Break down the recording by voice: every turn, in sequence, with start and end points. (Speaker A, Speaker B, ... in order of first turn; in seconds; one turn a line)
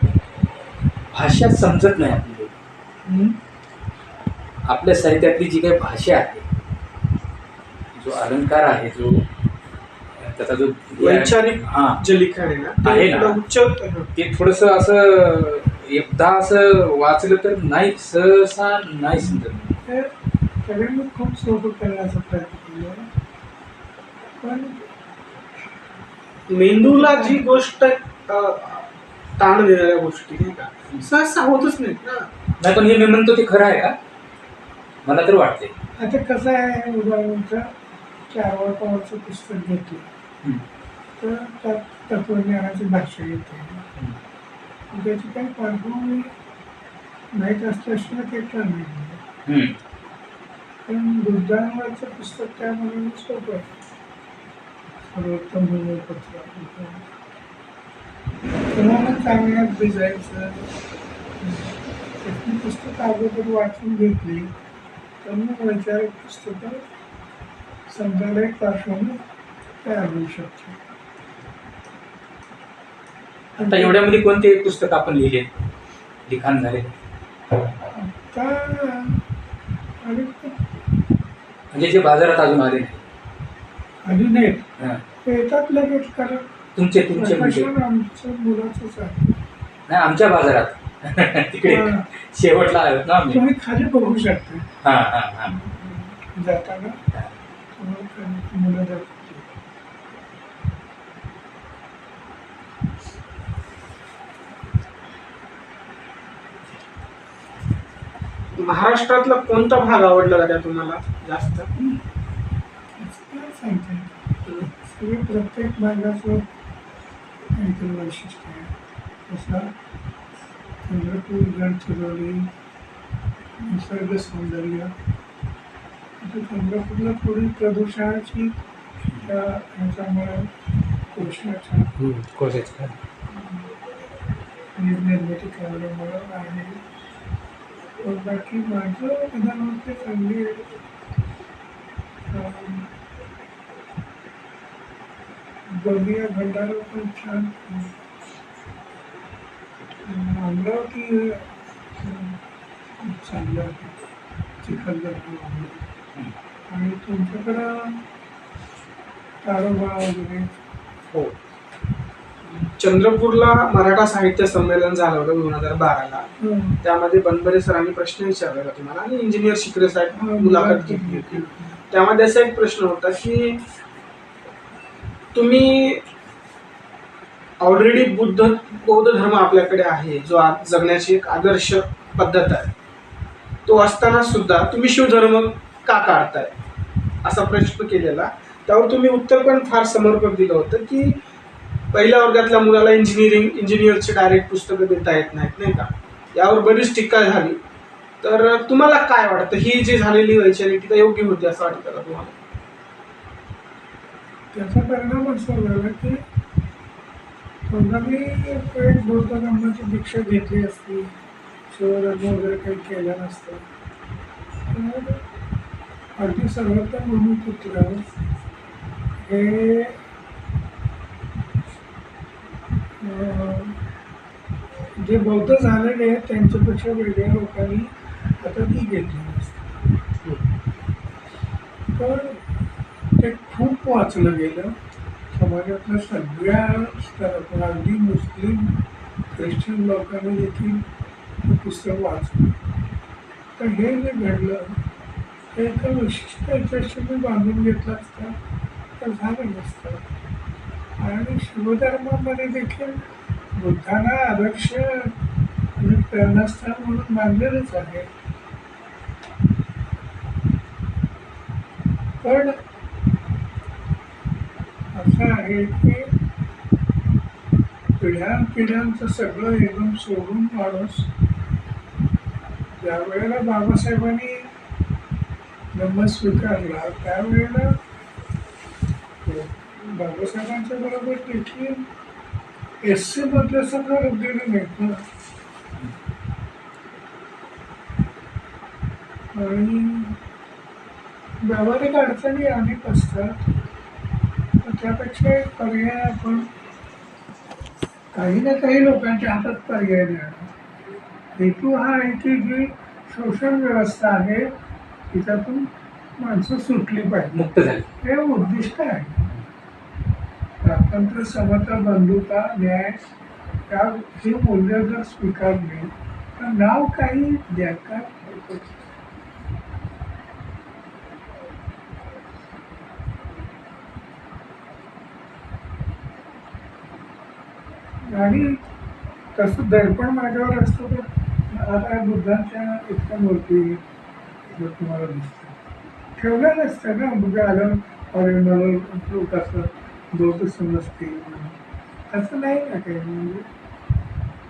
Speaker A: 1.1-2.5
Speaker B: 3.0-3.3
Speaker A: 4.7-6.4
Speaker A: 7.9-9.2
Speaker A: 10.2-12.0
Speaker C: 11.0-14.1
Speaker A: 12.8-13.4
Speaker A: 14.1-19.7
Speaker B: 19.1-20.1
Speaker B: 20.6-23.1
Speaker B: 24.4-24.8
Speaker C: 26.5-32.3
Speaker B: 26.7-27.4
Speaker A: 32.6-34.0
Speaker A: 35.0-35.7
Speaker B: 36.0-37.7
Speaker B: 38.3-40.1
Speaker B: 41.2-43.9
Speaker B: 44.9-46.3
Speaker B: 47.3-49.2
Speaker A: 49.5-49.8
Speaker B: 50.9-53.8
Speaker B: 55.1-57.0
Speaker B: 58.7-60.7
Speaker B: 61.4-64.5
Speaker B: 65.2-66.8
Speaker B: 67.9-69.2
Speaker B: 69.8-70.9
Speaker B: 73.6-74.1
Speaker A: 73.6-75.5
Speaker A: 76.3-76.9
Speaker B: 77.9-79.2
Speaker B: 80.0-80.6
Speaker A: 81.7-83.0
Speaker B: 84.0-84.7
Speaker B: 85.2-86.5
Speaker A: 86.8-87.7
Speaker B: 87.1-89.4
Speaker A: 89.9-93.4
Speaker B: 91.6-92.1
Speaker B: 93.3-94.7
Speaker A: 94.8-95.5
Speaker B: 95.5-97.0
Speaker B: 97.8-99.5
Speaker C: 108.6-111.7
Speaker B: 113.0-114.1
Speaker B: 114.8-116.5
Speaker B: 117.5-118.7
Speaker B: 119.3-119.7
Speaker B: 120.8-122.5
Speaker B: 123.6-124.9
Speaker B: 126.2-128.6
Speaker B: 129.2-130.5
Speaker B: 131.1-131.9
Speaker A: 132.0-132.9
Speaker B: 133.3-133.7
Speaker B: 134.8-136.8
Speaker B: 138.0-140.7
Speaker B: 142.3-142.9
Speaker B: 145.7-147.9
Speaker B: 150.0-152.4
Speaker B: 153.0-154.1
Speaker B: 154.6-155.8
Speaker B: 156.7-158.0
Speaker B: 159.4-160.6
Speaker C: 162.5-173.6
Speaker B: 166.4-166.8
Speaker B: 170.1-171.8
Speaker C: 175.3-176.0
Speaker C: 177.6-182.7
Speaker C: 183.7-186.5
Speaker C: 187.2-191.2
Speaker C: 191.9-197.6
Speaker C: 198.2-202.3
Speaker B: 204.5-206.2
Speaker B: 207.7-211.1
Speaker B: 211.7-213.7
Speaker B: 214.7-215.2
Speaker B: 216.2-218.1
Speaker B: 219.2-220.0
Speaker B: 223.0-223.8
Speaker B: 225.0-229.6
Speaker B: 231.9-232.4
Speaker B: 233.2-234.8
Speaker B: 235.3-238.8
Speaker B: 239.3-240.8
Speaker B: 241.4-242.6
Speaker B: 243.6-244.8
Speaker B: 245.5-248.4
Speaker B: 249.0-250.1
Speaker B: 251.0-255.1
Speaker B: 255.8-258.1
Speaker B: 262.2-262.5
Speaker B: 264.9-266.1
Speaker B: 268.0-271.1
Speaker B: 272.8-274.5
Speaker B: 275.7-277.8
Speaker B: 279.3-281.9
Speaker B: 282.8-285.0
Speaker B: 289.3-290.2
Speaker B: 291.4-293.4
Speaker B: 294.6-296.5
Speaker B: 298.1-300.5
Speaker B: 301.4-304.5
Speaker B: 305.1-309.4
Speaker A: 307.3-307.9
Speaker B: 310.6-313.0
Speaker B: 313.7-318.6
Speaker B: 328.1-328.6
Speaker B: 329.3-333.8
Speaker B: 334.5-335.6
Speaker B: 336.1-343.5